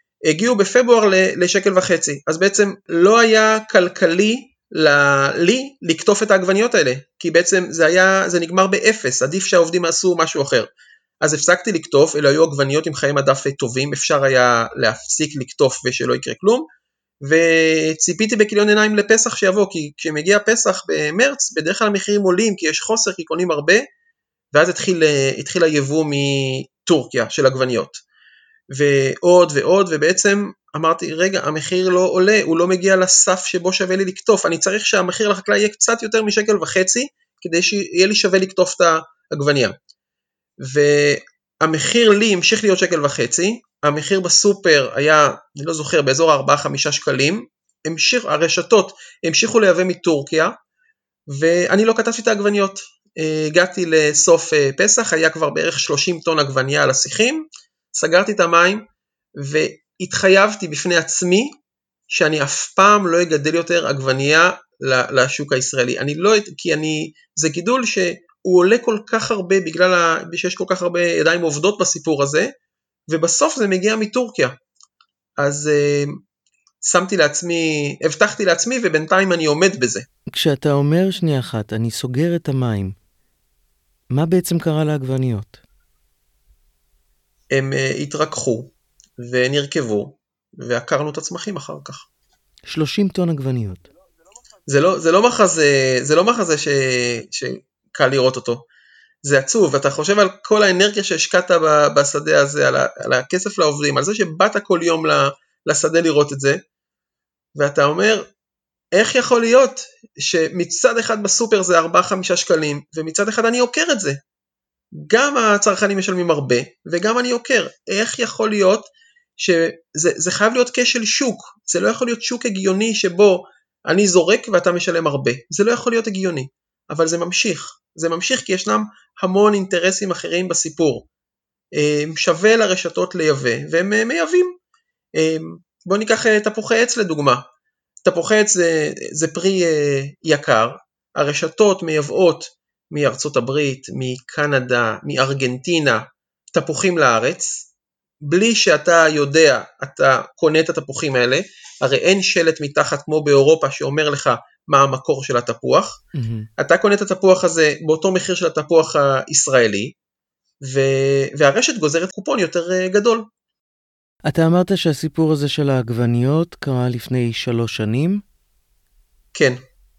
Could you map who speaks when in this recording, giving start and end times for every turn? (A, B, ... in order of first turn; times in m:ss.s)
0:00.3-0:10.7 A
0:11.2-0:16.6 A
0:17.2-0:23.8 A
0:24.5-0:28.0 A
0:28.7-0:39.7 A
0:40.6-0:50.5 A
0:51.3-0:58.8 A
0:59.4-1:01.5 A
1:02.1-1:12.5 A
1:13.1-1:14.5 A
1:15.4-1:16.2 A
1:16.8-1:20.1 A
1:20.3-1:22.9 B
1:24.1-1:25.6 B
1:27.5-1:32.0 A
1:32.7-1:33.8 B
1:34.7-1:38.6 A
1:39.2-1:46.6 A
1:47.6-1:48.2 A
1:48.9-1:54.2 A
1:54.9-2:11.1 A
2:11.7-2:14.5 A
2:15.2-2:17.4 A
2:18.0-2:26.0 A
2:26.5-2:27.6 A
2:28.2-2:36.0 A
2:36.1-2:36.5 B
2:36.6-2:39.9 A
2:40.6-2:43.2 A
2:44.3-2:48.2 B